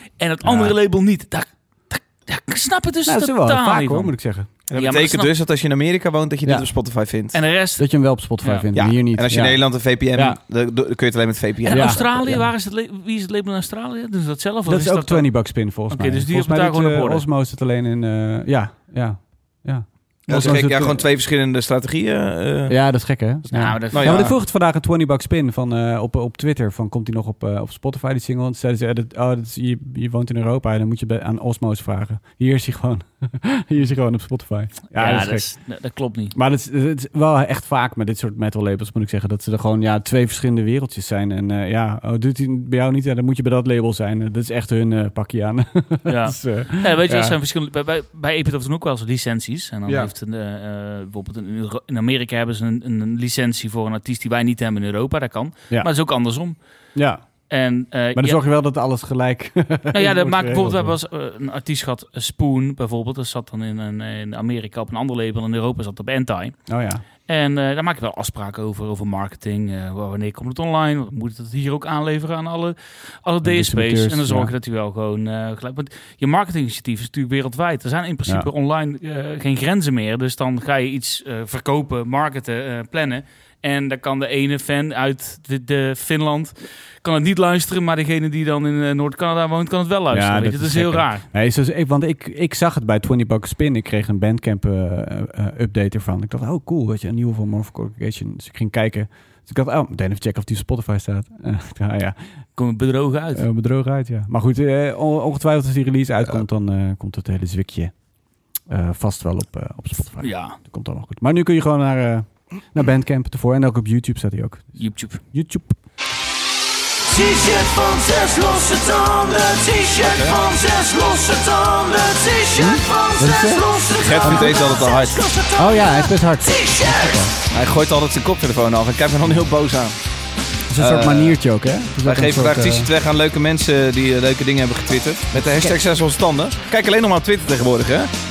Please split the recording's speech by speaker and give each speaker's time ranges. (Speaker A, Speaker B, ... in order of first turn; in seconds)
Speaker A: 0.2-4.1, 4.7-5.3, 7.3-7.8, 8.4-8.7, 11.6-15.3, 15.9-17.2, 23.5-24.3, 35.0-36.3, 46.1-56.6, 57.5-58.4, 59.9-66.7, 67.2-91.2, 102.6-103.5, 110.2-110.6, 114.8-115.2
Speaker B: 0.5-0.7, 3.1-4.5, 7.8-9.6, 11.7-12.5, 14.7-21.1, 22.7-35.5, 36.3-47.4, 57.0-57.2, 58.1-61.0, 66.7-67.0, 73.4-74.5, 90.1-102.2, 103.3-107.9, 108.7-114.8, 115.3-115.8, 122.6-123.7, 124.2-124.6, 125.5-127.3, 130.7-132.9, 135.3-135.8
Speaker C: 4.7-7.4, 8.7-12.1, 20.3-22.8, 23.9-24.4, 120.0-120.4, 124.0-125.3, 127.5-130.0, 130.8-131.4, 132.0-138.1
Speaker D: 117.0-127.2